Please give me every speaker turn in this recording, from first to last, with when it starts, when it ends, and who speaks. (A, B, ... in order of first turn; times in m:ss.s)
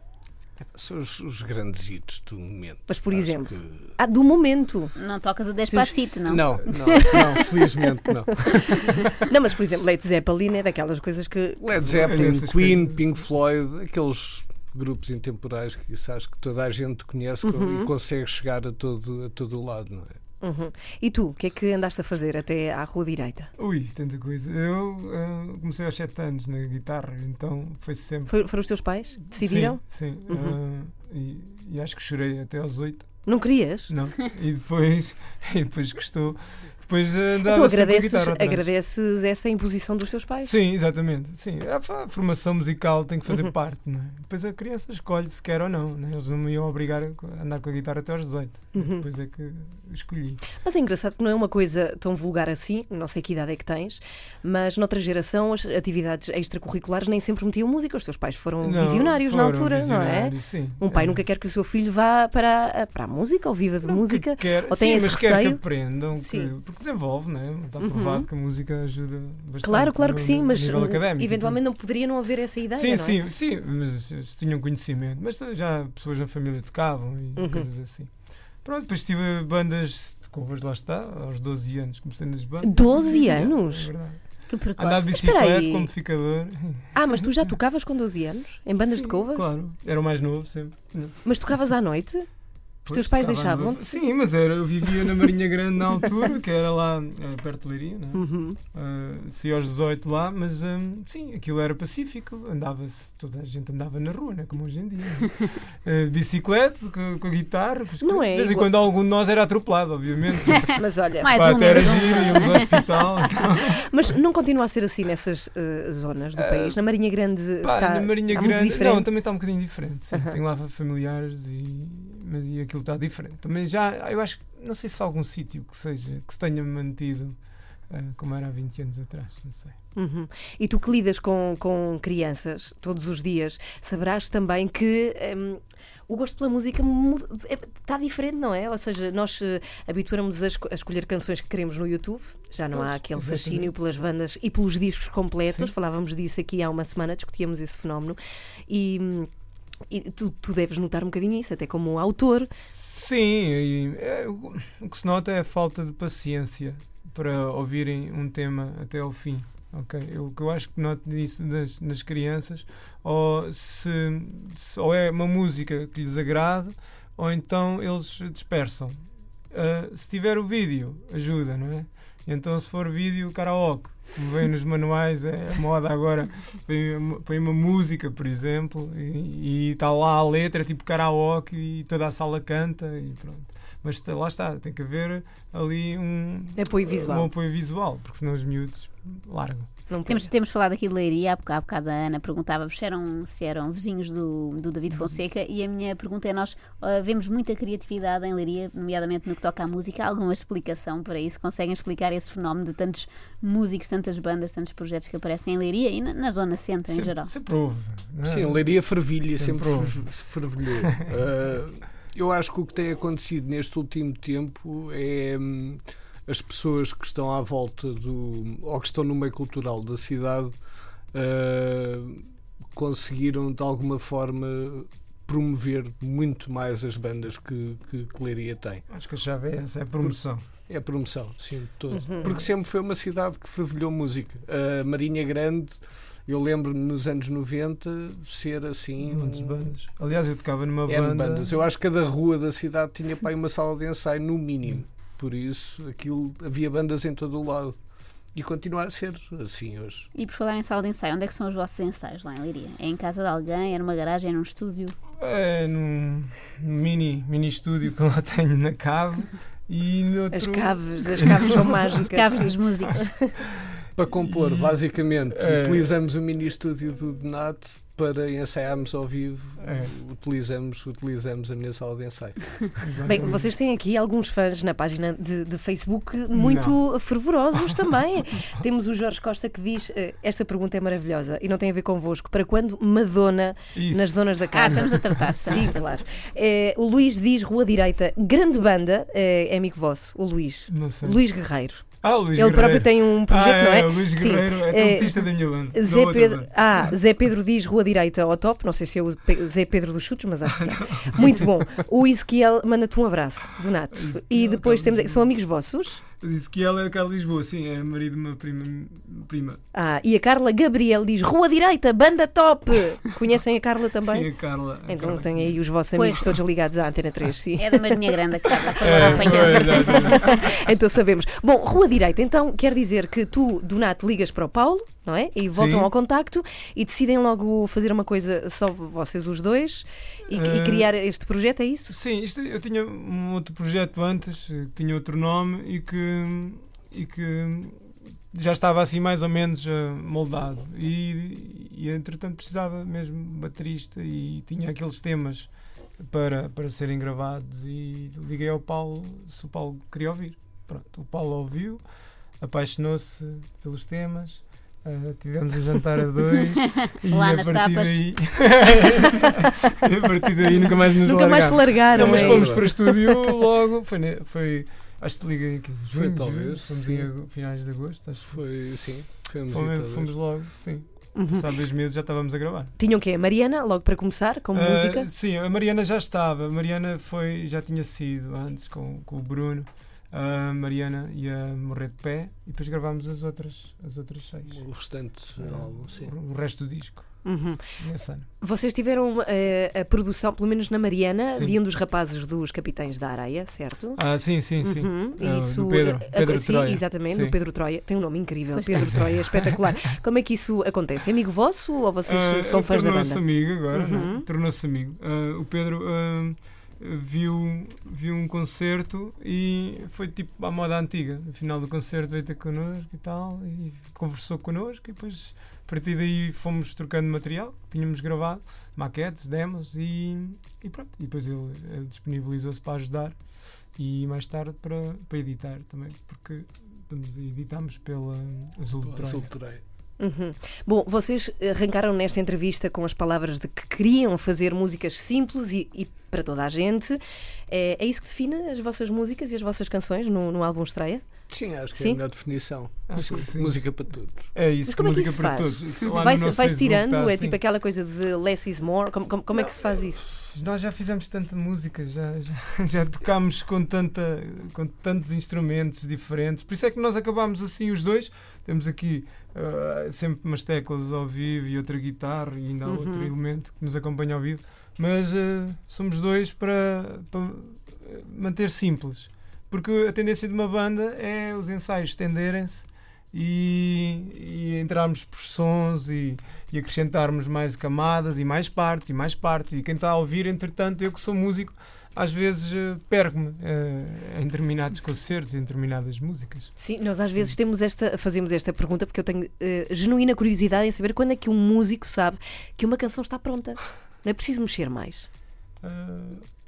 0:00.7-0:03.9 A
0:02.9-0:04.9 B
0:05.0-0:07.4 C
0:05.6-0:06.0 B
0:06.3-0:09.2 A
0:06.9-0:07.4 B
0:09.2-0:12.4 B
0:11.6-0:20.2 A
0:11.8-0:13.1 D
0:17.4-0:17.9 B
0:20.4-0:23.5 B
0:23.6-0:28.4 D
0:28.3-0:30.6 B
0:29.2-0:33.3 D
0:33.2-0:33.9 B
0:33.9-0:38.7 D
0:37.4-0:40.5 B
0:40.4-0:50.4 D
0:48.7-0:49.0 B
0:50.6-1:06.5 B
0:58.6-1:01.2 D
1:03.8-1:11.6 D
1:07.8-1:08.3 B
1:09.6-1:13.2 B
1:12.7-1:27.6 D
1:17.4-1:17.7 B
1:22.6-1:23.9 B
1:24.5-1:25.1 C
1:24.8-1:25.9 B
1:26.9-1:29.5 B
1:28.8-1:31.2 D
1:31.2-1:32.3 B
1:32.8-1:53.8 D
1:32.9-1:33.8 B
1:38.1-1:38.6 B
1:48.0-1:48.7 B
1:50.8-1:52.4 B
1:51.2-1:52.7 C
1:53.7-1:59.1 B
1:56.4-1:56.8 D
1:57.6-2:09.8 D
2:00.1-2:00.4 B
2:10.0-2:29.3 B
2:22.7-2:23.7 D
2:29.9-2:32.5 B
2:32.7-3:09.7 D
3:06.6-3:07.3 B
3:09.9-3:10.3 B
3:10.1-3:27.3 C
3:26.9-3:30.1 D
3:28.2-3:48.8 A
3:48.9-3:50.4 D
3:50.7-3:59.7 A
3:51.9-3:52.3 B
3:59.0-4:01.5 D
4:00.9-4:07.8 A
4:08.3-4:10.1 A
4:10.1-4:15.0 C
4:15.2-4:21.9 D
4:20.3-4:23.3 B
4:22.1-4:23.2 C
4:24.0-4:32.9 A
4:24.2-4:25.9 D
4:29.6-4:29.9 D
4:32.8-4:33.4 D
4:33.0-5:06.0 B
4:36.3-4:36.8 D
4:37.5-4:37.8 D
4:43.7-4:45.7 D
4:44.5-4:45.8 C
4:50.7-4:51.2 D
4:51.9-4:56.9 D
5:00.6-5:01.3 D
5:03.9-5:05.3 D
5:06.1-5:09.6 D
5:09.7-5:14.3 B
5:14.0-5:15.6 D
5:14.8-5:18.1 B
5:15.9-5:16.4 C
5:17.6-5:20.5 C
5:18.8-5:20.5 D
5:18.8-5:31.9 B
5:25.5-5:25.9 D
5:30.3-5:30.9 D
5:31.9-5:51.8 D
5:52.4-6:08.4 D
5:56.8-5:58.0 C
6:01.0-6:03.1 B
6:01.9-6:02.6 A
6:05.9-6:07.1 A
6:08.3-6:10.1 A
6:09.5-6:12.7 D
6:11.1-6:11.4 B
6:12.8-6:15.1 B
6:14.5-6:24.7 D
6:24.5-6:26.1 A
6:25.3-6:27.2 D
6:27.2-6:27.8 B
6:27.8-6:28.3 D
6:28.4-6:34.0 B
6:34.0-6:37.4 D
6:34.6-6:44.2 B
6:38.5-6:39.0 C
6:38.8-6:39.5 D
6:42.0-7:03.2 D
7:03.7-7:09.3 D
7:08.8-7:09.6 A
7:10.0-7:21.0 B
7:21.3-7:24.2 A
7:21.7-7:22.0 B
7:22.9-7:27.4 D
7:24.7-7:30.0 B
7:30.1-8:06.5 D
7:42.6-7:43.1 B
8:06.6-8:15.1 B
8:15.6-8:16.3 D